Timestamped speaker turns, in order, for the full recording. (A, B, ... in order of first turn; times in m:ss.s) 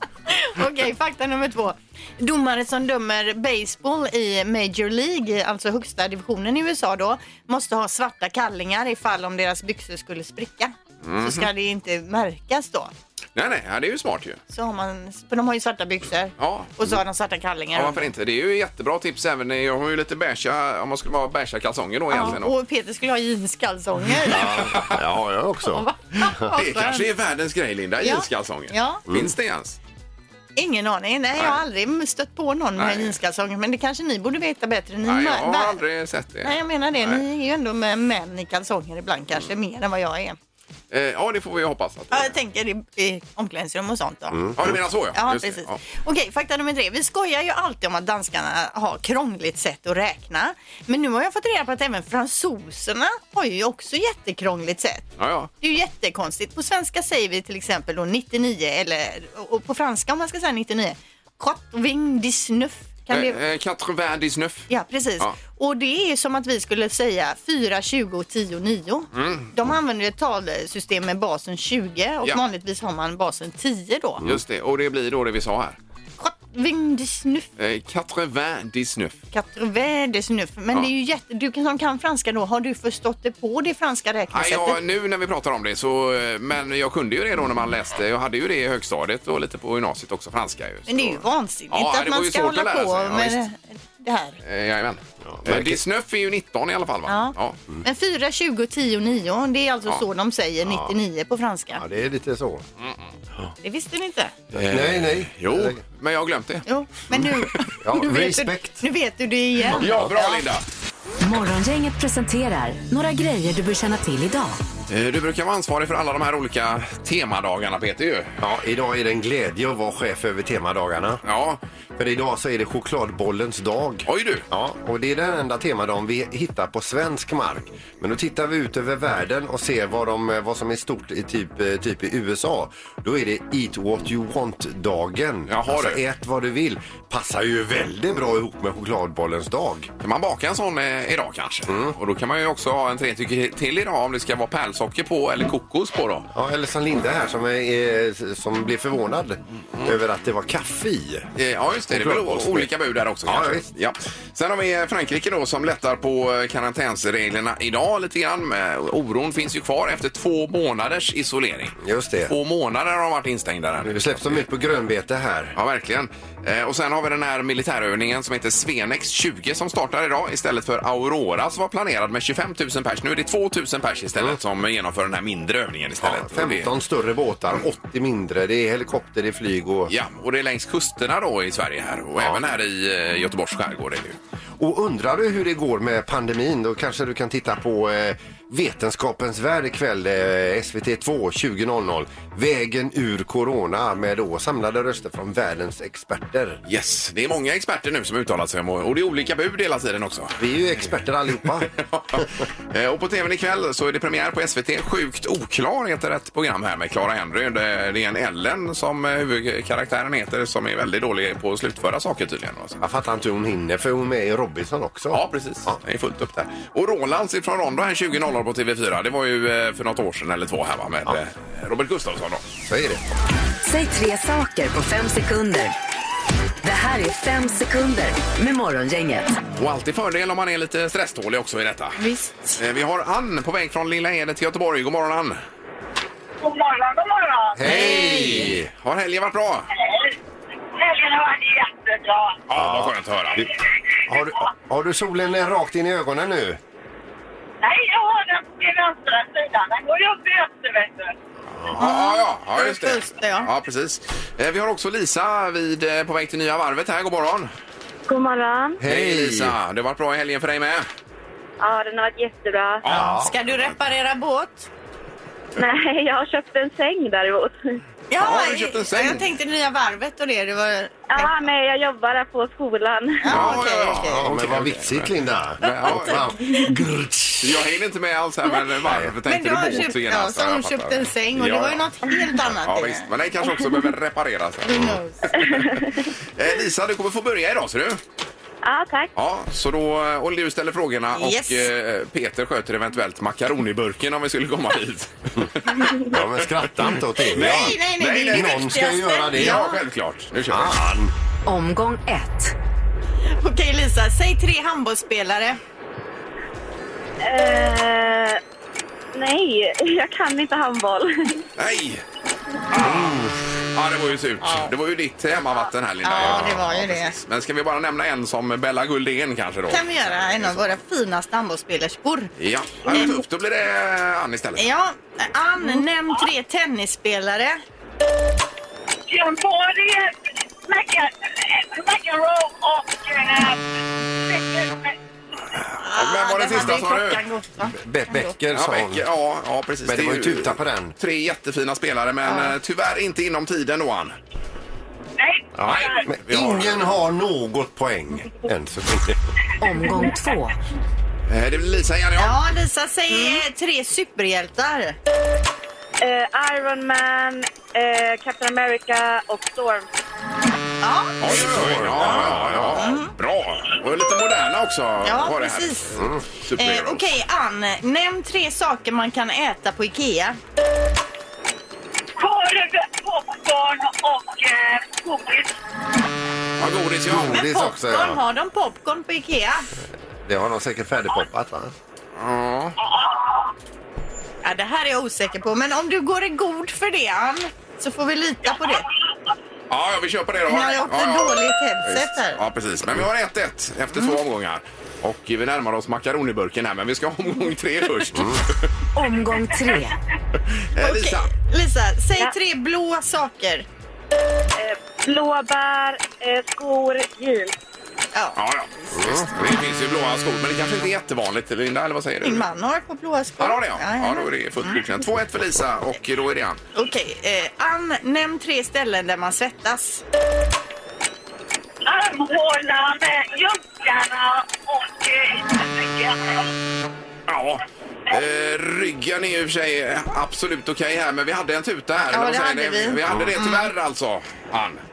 0:00.3-0:12.9 A
0:11.0-0:11.5 B
0:13.4-0:14.4 B
0:14.5-0:18.1 A
0:16.4-0:16.7 B
0:17.7-0:22.6 B
0:22.1-0:24.7 A
0:24.3-0:26.5 C
0:24.3-0:25.0 B
0:25.7-0:27.1 A
0:26.5-0:29.8 B
0:28.0-0:29.0 A
0:30.6-0:35.8 A
0:32.8-0:33.2 B
0:35.0-0:37.2 B
0:36.4-0:40.4 A
0:40.9-0:42.3 B
0:42.1-0:44.5 A
0:44.3-0:44.8 C
0:44.6-0:45.8 B
0:45.2-0:55.0 A
0:55.2-0:55.5 B
0:55.6-1:03.4 A
1:03.1-1:05.4 B
1:04.7-1:14.2 A
1:09.1-1:09.5 B
1:14.2-1:15.8 B
1:16.2-1:17.5 A
1:17.6-1:19.2 B
1:19.3-1:24.8 A
1:24.3-1:33.4 B
1:30.9-1:34.4 A
1:34.4-1:37.6 B
1:35.2-1:35.8 C
1:37.1-1:41.8 A
1:40.6-1:41.0 C
1:41.8-1:42.6 C
1:42.8-1:43.1 B
1:43.6-1:44.3 A
1:44.5-1:45.8 C
1:44.5-1:47.3 B
1:46.7-1:50.4 A
1:47.8-1:48.8 C
1:49.8-1:50.1 C
1:49.8-1:50.6 B
1:51.2-1:54.6 D
1:54.9-1:58.3 B
1:58.4-2:01.2 C
2:01.2-2:01.6 B
2:02.0-2:19.9 C
2:04.1-2:04.4 B
2:15.5-2:16.0 B
2:20.0-2:26.3 B
2:21.7-2:22.0 C
2:26.3-2:31.3 C
2:31.4-2:41.8 B
2:31.9-2:32.7 C
2:33.2-2:33.7 C
2:41.8-2:42.3 C
2:42.3-2:44.4 B
2:43.8-2:45.6 C
2:45.6-2:56.7 B
2:56.0-2:59.9 C
2:59.9-3:04.2 B
3:02.2-3:02.4 C
3:04.6-3:16.6 C
3:16.7-3:20.4 B
3:20.4-3:22.3 C
3:21.8-3:32.8 B
3:32.8-3:35.8 C
3:35.1-3:42.4 B
3:42.6-3:43.1 C
3:43.6-3:45.7 D
3:46.6-3:49.4 D
3:49.6-3:52.0 B
3:52.0-3:52.6 A
3:52.6-3:55.4 B
3:56.4-3:57.6 E
3:57.6-3:58.7 C
3:57.7-3:59.7 B
3:57.7-3:58.5 A
4:00.7-4:02.4 E
4:02.5-4:03.5 B
4:02.5-4:03.5 C
4:04.1-4:06.6 C
4:07.6-4:11.2 E
4:11.7-4:17.5 B
4:11.8-4:13.5 A
4:18.1-4:18.8 F
4:18.8-4:19.6 C
4:18.8-4:20.9 B
4:21.6-4:22.8 F
4:22.9-4:23.2 B
4:22.9-4:23.3 C
4:22.9-4:24.7 A
4:25.6-4:27.8 F
4:28.1-4:31.4 A
4:28.2-4:29.2 B
4:31.1-4:33.2 F
4:33.2-4:34.2 A
4:33.3-4:36.3 B
4:33.3-4:37.6 C
4:37.4-4:41.9 B
4:38.8-4:39.1 C
4:39.3-4:43.1 A
4:42.5-4:48.0 B
4:44.7-4:45.2 A
4:44.7-4:45.0 C
4:45.5-4:46.1 F
4:48.6-4:49.1 F
4:49.2-4:55.8 B
4:51.2-4:51.7 A
4:56.1-4:59.6 C
4:57.2-4:58.8 B
4:57.4-4:59.8 A
4:59.3-5:00.8 B
5:00.5-5:01.1 C
5:01.5-5:02.5 D
5:03.4-5:05.6 A
5:07.2-5:08.4 F
5:09.1-5:11.4 F
5:11.6-5:12.0 B
5:12.7-5:20.6 B
5:12.8-5:13.3 C
5:14.4-5:14.7 A
5:16.0-5:17.2 A
5:19.7-5:22.3 A
5:22.4-5:24.6 B
5:22.9-5:23.2 A
5:24.6-5:27.6 A
5:29.1-5:35.0 E
5:35.6-5:37.2 B
5:35.8-5:38.4 A
5:37.7-5:39.0 C
5:38.5-5:44.2 B
5:39.9-5:41.0 C
5:42.2-5:42.6 A
5:45.2-5:46.1 E
5:45.6-5:49.2 C
5:45.6-5:46.9 B
5:49.6-5:50.6 D
5:51.3-5:52.4 B
5:52.2-5:55.0 A
5:53.1-5:53.4 F
5:56.0-5:59.9 F
6:00.8-6:03.1 A
6:01.2-6:07.1 B
6:01.2-6:02.8 C
6:05.0-6:05.9 A
6:06.0-6:06.2 C
6:06.6-6:10.4 A
6:12.2-6:15.6 E
6:16.6-6:17.4 B
6:17.1-6:18.2 C
6:17.3-6:19.7 A
6:20.2-6:21.7 C
6:22.2-6:22.8 B
6:22.8-6:23.5 E
6:24.4-6:28.8 A
6:29.7-6:38.7 B
6:30.5-6:32.4 A
6:38.1-6:38.5 C
6:39.0-6:40.0 D
6:40.7-6:41.3 B
6:40.8-6:43.7 A
6:44.6-6:47.6 F
6:48.4-6:52.5 B
6:49.0-6:49.5 C
6:52.2-6:54.8 A
6:53.4-6:56.6 B
6:56.8-7:00.0 A
7:01.8-7:06.5 E
7:07.3-7:14.8 B
7:08.1-7:08.4 E
7:12.1-7:13.7 A
7:13.1-7:13.3 C